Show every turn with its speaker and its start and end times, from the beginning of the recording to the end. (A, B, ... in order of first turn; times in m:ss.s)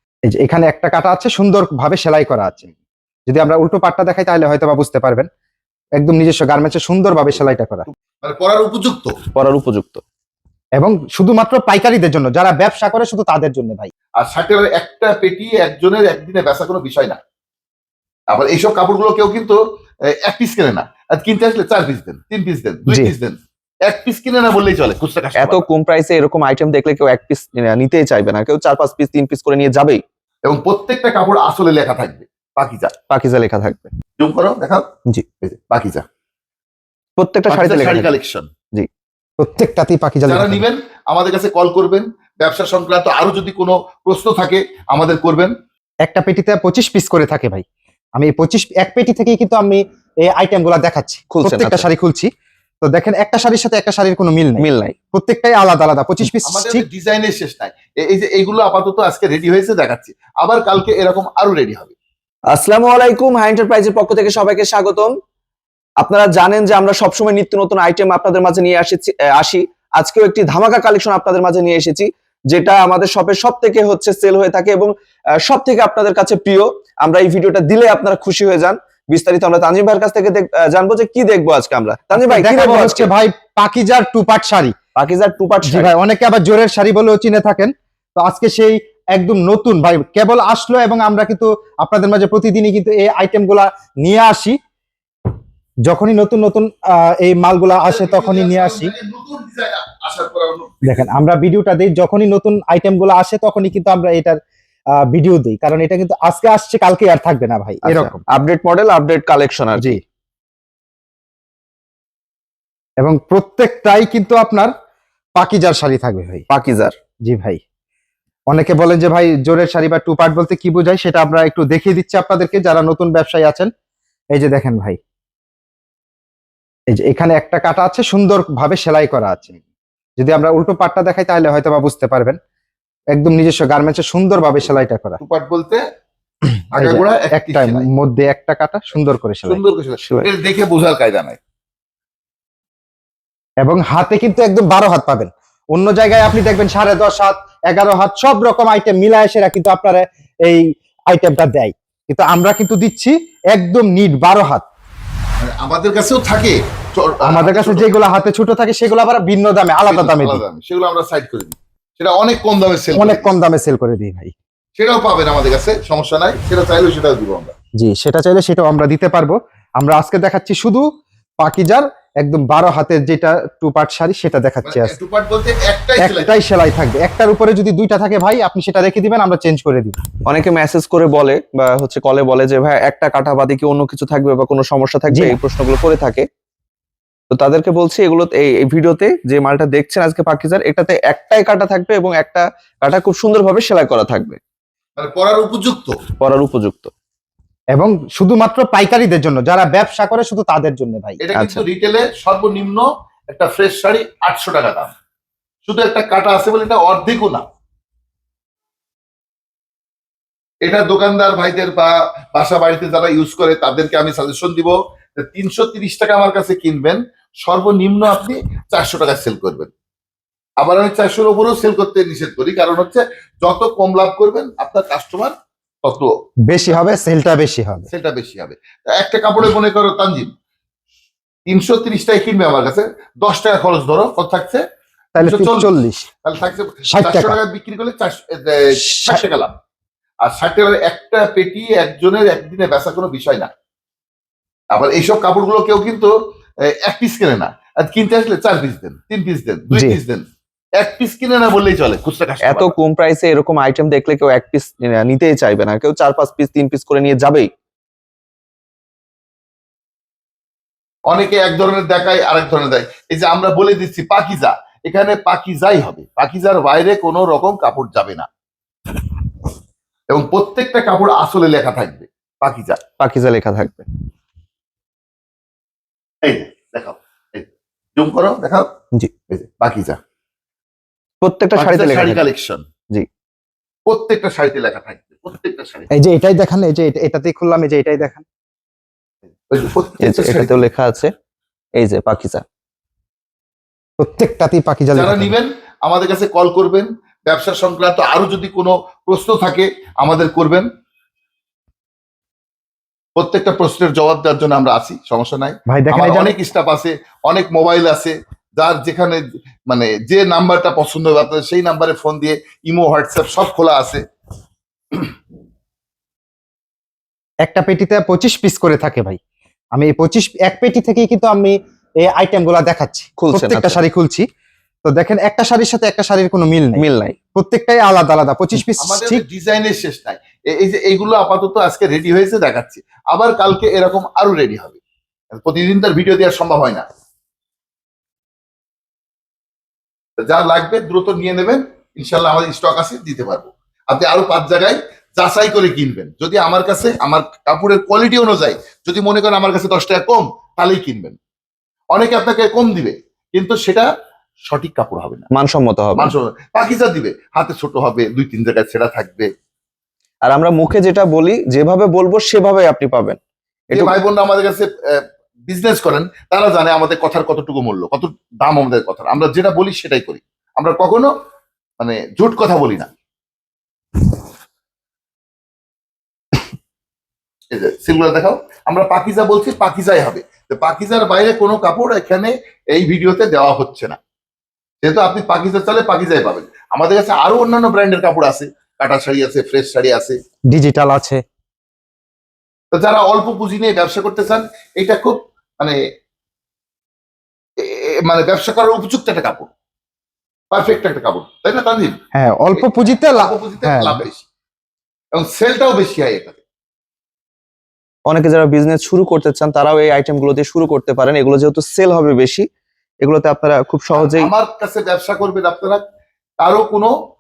0:00.3-0:02.7 A
0:03.3-0:05.3 A
0:06.0-0:07.9 A
0:08.2-0:09.2 B
0:09.4-0:10.0 C
0:10.8-0:13.9 A
0:14.2-0:17.2 B
0:18.3-0:19.6 B
0:20.2-0:25.7 B
0:22.9-0:23.1 A
0:25.4-0:30.0 C
0:30.5-0:32.9 B
0:33.1-0:33.9 C
0:34.2-0:34.9 B
0:35.4-0:36.0 B
0:37.2-0:38.1 C
0:37.5-0:38.5 B
0:39.4-0:40.6 A
0:40.3-0:45.5 B
0:46.0-0:47.6 A
0:48.2-0:52.3 A
0:51.3-0:51.9 C
0:52.8-0:56.8 A
0:54.6-0:55.0 C
0:56.4-1:02.0 B
1:02.5-1:05.1 C
1:06.0-1:14.9 C
1:15.5-1:23.1 C
1:22.1-1:24.8 A
1:25.0-1:25.9 C
1:25.6-1:34.6 A
1:35.9-1:38.9 A
1:37.8-1:41.0 B
1:40.8-1:44.4 A
1:45.0-1:48.3 A
1:47.9-1:50.0 C
1:53.0-1:54.7 A
1:55.4-1:56.4 A
1:56.5-1:57.0 C
1:57.2-1:57.6 A
1:58.5-2:03.7 A
2:04.3-2:05.0 A
2:06.9-2:09.6 A
2:10.2-2:12.4 A
2:13.1-2:15.2 A
2:15.2-2:15.8 B
2:16.7-2:17.9 B
2:16.8-2:19.6 A
2:19.5-2:21.4 B
2:20.0-2:20.3 C
2:23.6-2:34.7 A
2:35.4-2:38.0 B
2:37.2-2:40.4 A
2:39.9-2:43.4 B
2:43.0-2:44.3 A
2:44.8-2:47.5 B
2:47.8-2:50.9 A
2:51.4-2:55.0 A
2:54.6-2:56.4 B
2:56.0-3:00.0 A
3:00.3-3:06.2 C
3:05.1-3:05.4 A
3:07.3-3:14.4 C
3:15.0-3:16.0 B
3:16.2-3:16.9 C
3:17.8-3:21.2 A
3:21.2-3:24.9 B
3:21.4-3:21.6 C
3:25.7-3:27.4 B
3:30.6-3:39.7 B
3:40.6-3:46.1 B
3:46.5-3:47.9 A
3:47.9-3:50.3 B
3:51.5-3:54.6 B
3:55.2-3:56.1 A
3:55.2-3:55.7 B
3:56.2-3:59.5 B
3:56.9-3:57.4 A
3:58.8-3:59.2 A
4:00.2-4:03.5 B
4:04.7-4:06.1 B
4:06.6-4:10.2 B
4:09.7-4:10.0 A
4:10.8-4:12.7 B
4:12.4-4:17.5 C
4:21.1-4:28.3 B
4:30.1-4:32.8 B
4:33.0-4:33.9 C
4:36.2-4:38.7 B
4:39.3-4:40.0 B
4:41.2-4:42.2 C
4:41.6-4:42.6 B
4:43.9-4:45.9 B
4:45.9-4:48.2 A
4:49.5-4:50.7 B
4:50.0-4:51.1 C
4:51.8-4:52.4 C
4:54.0-4:55.4 A
4:54.9-5:00.7 B
5:03.2-5:14.0 B
5:05.7-5:06.3 A
5:17.4-5:19.2 A
5:19.8-5:24.2 A
5:23.2-5:23.8 C
5:24.8-5:26.8 A
5:26.8-5:27.2 C
5:27.4-5:29.2 A
5:28.8-5:34.8 B
5:35.3-5:36.8 B
5:40.2-5:51.2 B
5:51.9-5:53.9 B
5:54.5-5:55.3 B
5:55.3-5:56.1 C
5:56.0-5:59.3 B
6:00.3-6:03.2 C
6:03.7-6:11.1 B
6:11.8-6:12.9 B
6:17.5-6:24.0 B
6:24.8-6:30.2 B
6:30.5-6:31.2 A
6:32.7-6:35.8 B
6:37.6-6:39.5 B
6:40.5-6:42.0 B
6:42.2-6:44.1 A
6:42.5-6:44.3 B
6:45.2-6:46.4 B
6:48.1-6:52.4 C
6:53.0-6:54.3 C
6:53.9-6:55.8 B
6:56.4-6:56.9 B